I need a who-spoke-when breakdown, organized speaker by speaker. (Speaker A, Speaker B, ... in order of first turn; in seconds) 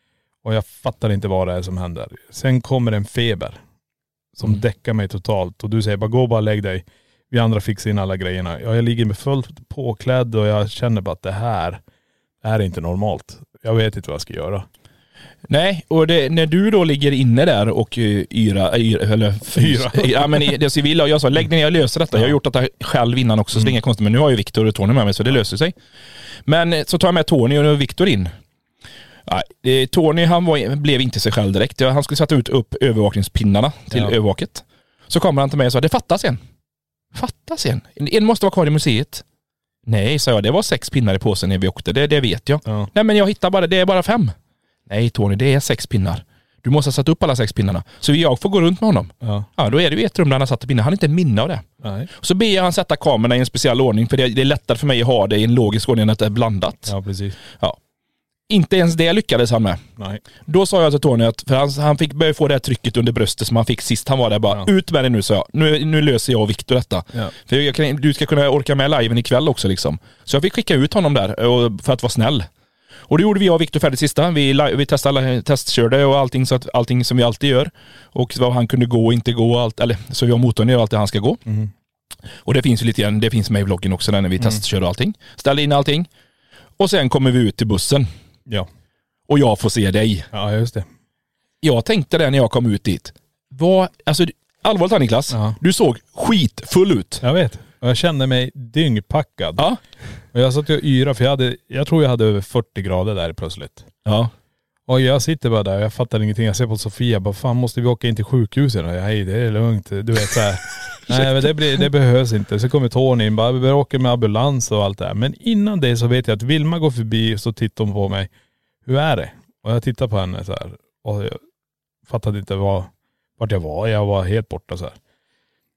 Speaker A: 0.4-3.6, 4.4-11.8, 12.4-14.7, 19.5-20.5, 49.2-49.5, 51.8-52.1, 56.9-57.4, 90.3-90.9, 95.3-95.6, 97.2-99.7, 100.3-103.9, 104.9-118.3, 118.8-121.4, 122.1-125.0
Speaker B: 15.5-25.8, 26.5-28.3, 29.3-36.4, 37.1-39.2, 39.9-44.4, 44.9-57.0, 57.5-57.8, 58.5-59.8, 60.5-72.5, 73.1-81.4, 82.5-86.1, 86.8-88.1, 89.3-90.3, 91.6-97.2, 104.1-104.3, 111.1-111.5